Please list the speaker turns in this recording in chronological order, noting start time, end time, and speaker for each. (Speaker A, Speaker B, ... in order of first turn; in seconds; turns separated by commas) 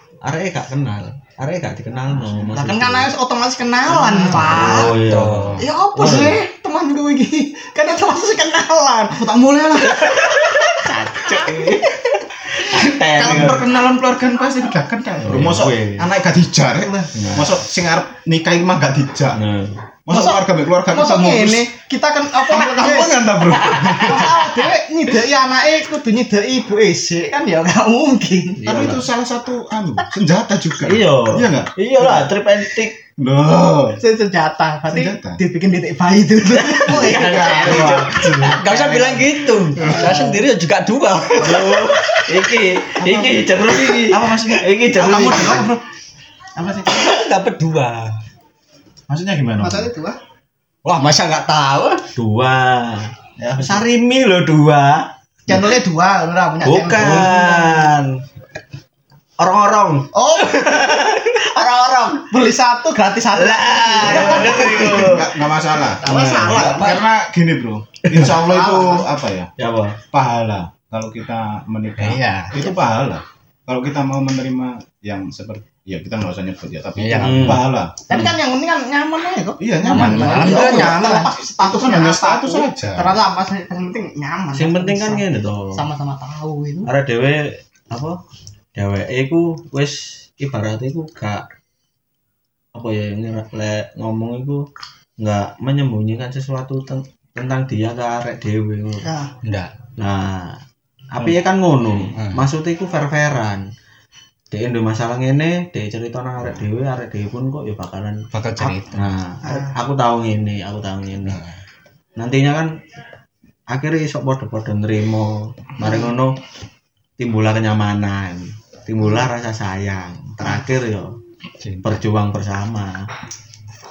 Speaker A: 0.2-3.1, Speaker B: 2.5-4.9, Speaker C: 3.9-4.7, Speaker A: 4.0-6.4, Speaker D: 4.5-5.7, Speaker B: 5.6-9.2, Speaker C: 9.1-10.1, Speaker B: 9.9-13.6, Speaker A: 10.0-13.6, Speaker C: 13.2-19.4, Speaker A: 15.2-16.1, Speaker A: 17.1-17.6, Speaker A: 19.3-19.9, Speaker C: 20.0-21.7, Speaker B: 20.1-23.2, Speaker C: 22.4-24.5, Speaker A: 23.6-24.3, Speaker B: 23.9-28.7, Speaker A: 28.6-29.1, Speaker C: 28.6-32.3, Speaker A: 30.8-33.0, Speaker C: 33.1-34.0, Speaker B: 34.0-38.1, Speaker C: 34.9-35.4, Speaker A: 36.5-40.2, Speaker C: 36.9-39.0, Speaker D: 38.4-42.2, Speaker C: 39.7-40.2, Speaker A: 41.4-45.8, Speaker C: 43.0-44.7, Speaker B: 44.9-45.8, Speaker C: 46.5-47.1, Speaker D: 46.9-48.2, Speaker C: 49.1-49.9, Speaker B: 49.6-50.2, Speaker D: 50.8-52.1, Speaker A: 52.1-55.7, Speaker C: 53.4-53.8, Speaker B: 55.5-57.9, Speaker A: 56.6-58.2, Speaker A: 59.4-61.4, Speaker B: 60.1-65.1, Speaker A: 63.3-65.3, Speaker C: 64.1-69.5, Speaker B: 66.0-67.0, Speaker A: 66.0-66.8, Speaker B: 68.2-69.1, Speaker A: 69.6-70.0, Speaker C: 70.1-78.2, Speaker D: 72.0-72.7, Speaker D: 77.0-77.6, Speaker A: 77.2-78.3, Speaker B: 78.1-86.9, Speaker C: 79.6-83.2, Speaker D: 79.8-81.3, Speaker A: 84.5-85.8, Speaker A: 86.8-88.2, Speaker A: 88.7-91.4, Speaker A: 92.7-94.7, Speaker A: 95.2-99.1, Speaker B: 99.0-99.3, Speaker D: 99.4-99.7, Speaker A: 100.0-100.6, Speaker A: 101.1-103.6, Speaker D: 102.1-102.4, Speaker A: 104.5-111.4, Speaker D: 108.3-109.1, Speaker B: 109.4-109.8, Speaker A: 112.2-112.7, Speaker A: 113.7-116.4, Speaker B: 115.8-116.1, Speaker A: 117.2-121.1, Speaker B: 119.0-119.3, Speaker D: 121.6-122.0, Speaker A: 121.8-123.1